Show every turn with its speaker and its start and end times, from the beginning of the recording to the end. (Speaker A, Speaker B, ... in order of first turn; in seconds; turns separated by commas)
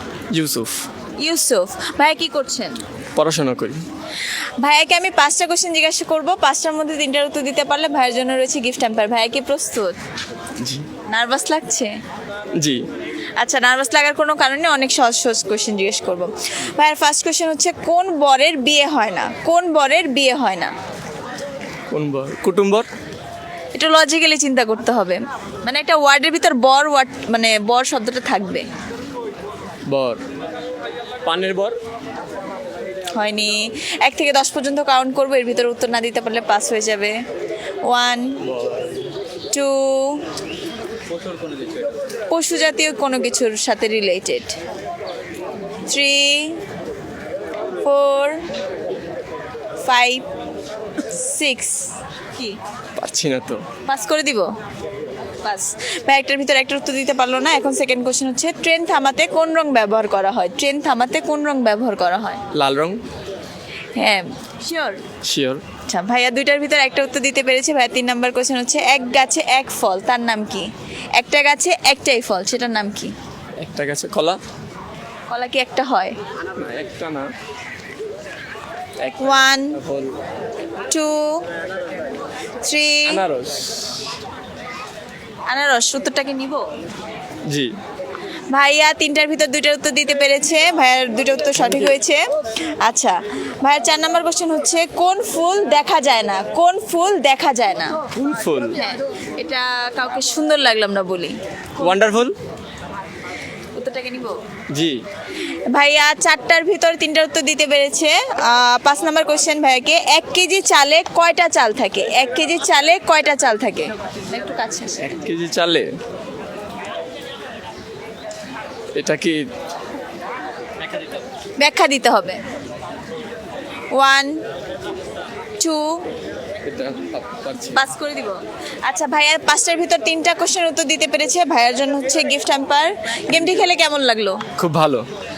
Speaker A: 0.3-0.8, Speaker B: 1.2-2.8, Speaker A: 3.1-3.8, Speaker B: 4.2-10.0, Speaker A: 10.6-10.9, Speaker B: 11.1-11.9, Speaker A: 12.6-12.8, Speaker B: 13.4-20.7, Speaker A: 21.9-22.9, Speaker B: 23.7-28.6, Speaker A: 29.9-30.2, Speaker A: 31.2-31.8, Speaker B: 33.1-37.2, Speaker B: 37.9-38.4, Speaker A: 38.4-39.0, Speaker B: 39.5-40.2, Speaker B: 42.3-44.6, Speaker B: 45.9-46.6, Speaker B: 47.8-48.4, Speaker B: 49.8-50.2, Speaker B: 51.0-52.6, Speaker A: 53.0-53.6, Speaker B: 53.9-54.5, Speaker B: 55.4-62.4, Speaker A: 62.5-63.0, Speaker B: 64.0-65.0, Speaker A: 65.2-65.6, Speaker B: 65.9-73.1, Speaker A: 73.6-74.4, Speaker B: 75.3-76.2, Speaker A: 76.6-77.3, Speaker A: 79.0-80.1, Speaker B: 79.2-79.8, Speaker B: 80.9-81.5, Speaker B: 82.6-83.2, Speaker A: 83.0-84.0, Speaker B: 85.5-86.7, Speaker A: 87.5-87.7, Speaker B: 88.5-98.0, Speaker A: 91.5-92.0, Speaker A: 98.1-98.8, Speaker B: 98.7-101.3, Speaker A: 101.8-102.3, Speaker B: 103.7-104.4, Speaker A: 104.7-105.0, Speaker B: 105.4-115.2, Speaker A: 115.0-115.9, Speaker A: 118.9-119.4, Speaker B: 121.6-122.4, Speaker B: 123.9-124.4, Speaker B: 125.6-126.0, Speaker A: 126.6-127.8, Speaker B: 127.7-134.4, Speaker A: 133.3-133.7, Speaker A: 134.6-135.0